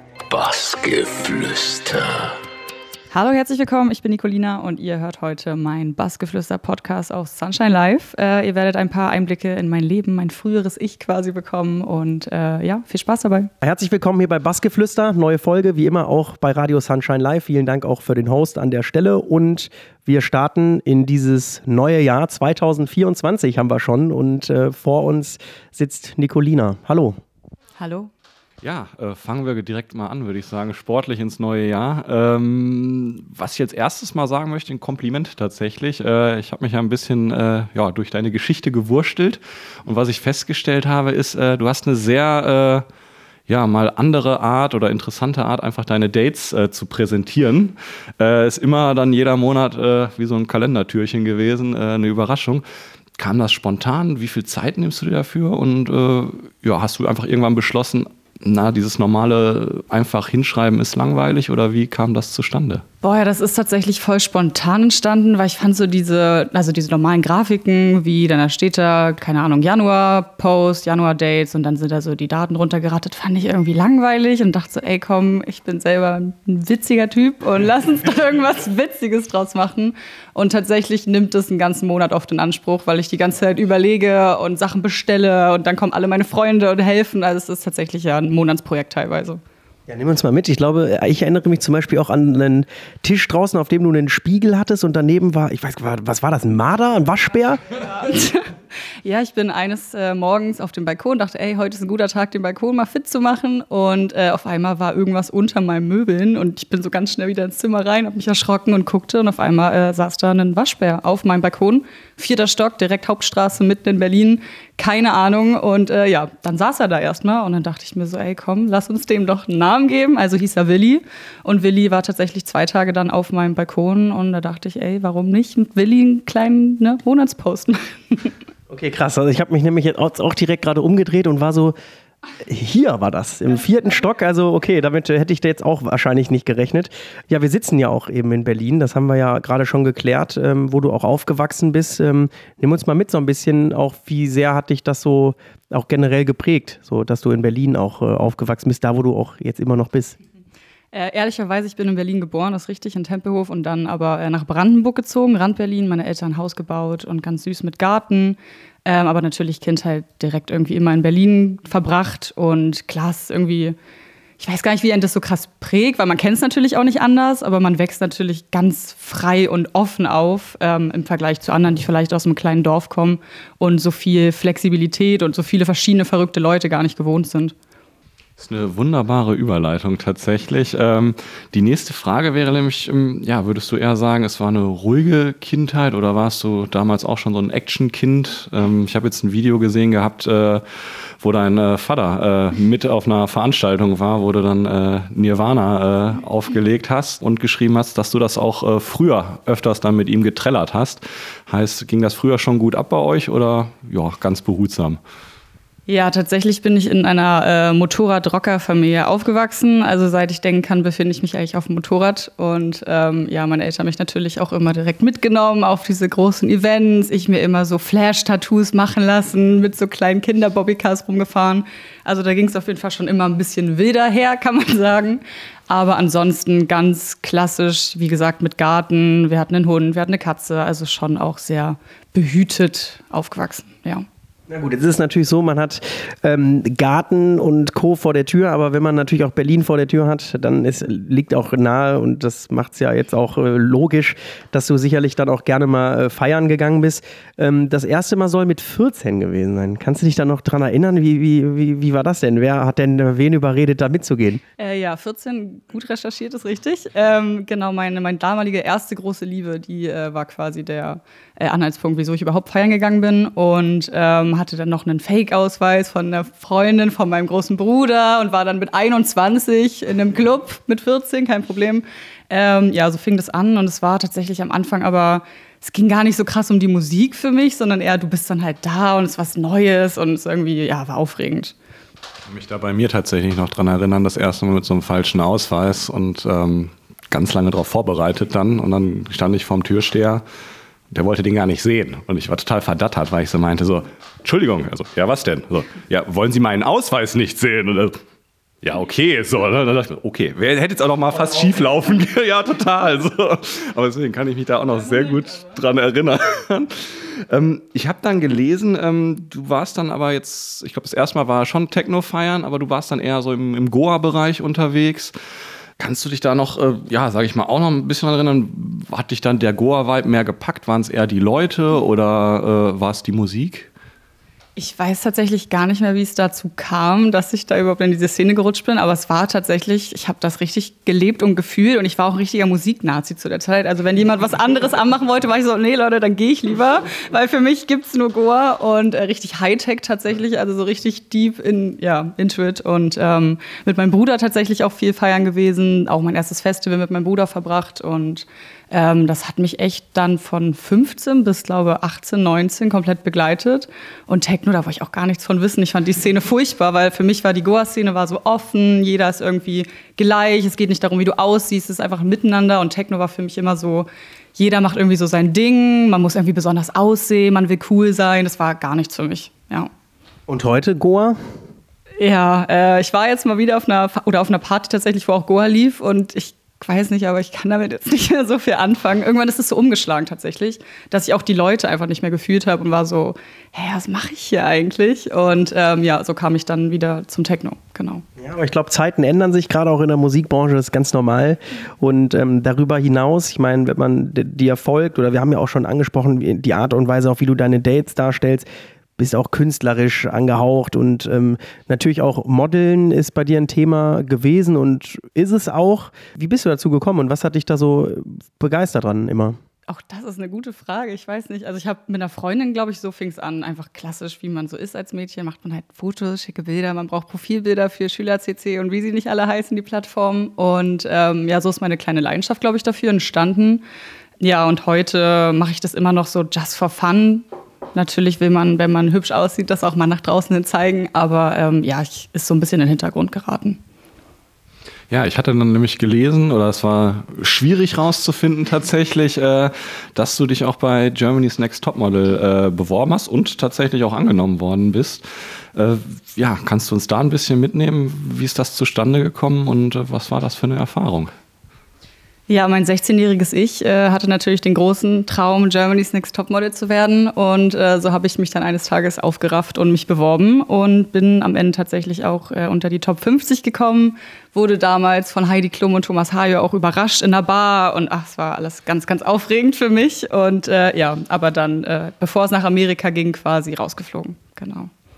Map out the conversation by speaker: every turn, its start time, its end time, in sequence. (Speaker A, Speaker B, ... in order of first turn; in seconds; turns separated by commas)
Speaker A: 0.3-2.4, Speaker B: 3.1-13.5, Speaker C: 13.6-27.2, Speaker B: 27.8-28.1, Speaker D: 28.6-42.9, Speaker D: 43.5-52.6, Speaker D: 53.2-62.8, Speaker B: 63.0-89.4, Speaker C: 89.9-97.6, Speaker B: 97.9-98.5, Speaker B: 99.0-128.3, Speaker C: 128.7-131.8, Speaker C: 132.4-150.2, Speaker B: 150.9-163.8, Speaker B: 164.4-177.5, Speaker D: 178.4-190.6, Speaker D: 191.2-205.0, Speaker B: 205.9-234.1, Speaker C: 234.5-254.4, Speaker B: 254.6-281.5, Speaker D: 282.3-290.2, Speaker D: 290.9-298.0, Speaker D: 298.6-315.1, Speaker D: 315.8-323.7, Speaker B: 324.6-369.7, Speaker C: 370.3-371.2, Speaker B: 372.0-388.0, Speaker C: 388.2-398.5, Speaker C: 399.0-409.4, Speaker B: 409.7-423.6, Speaker B: 424.2-433.6, Speaker D: 434.9-451.1, Speaker B: 452.3-474.7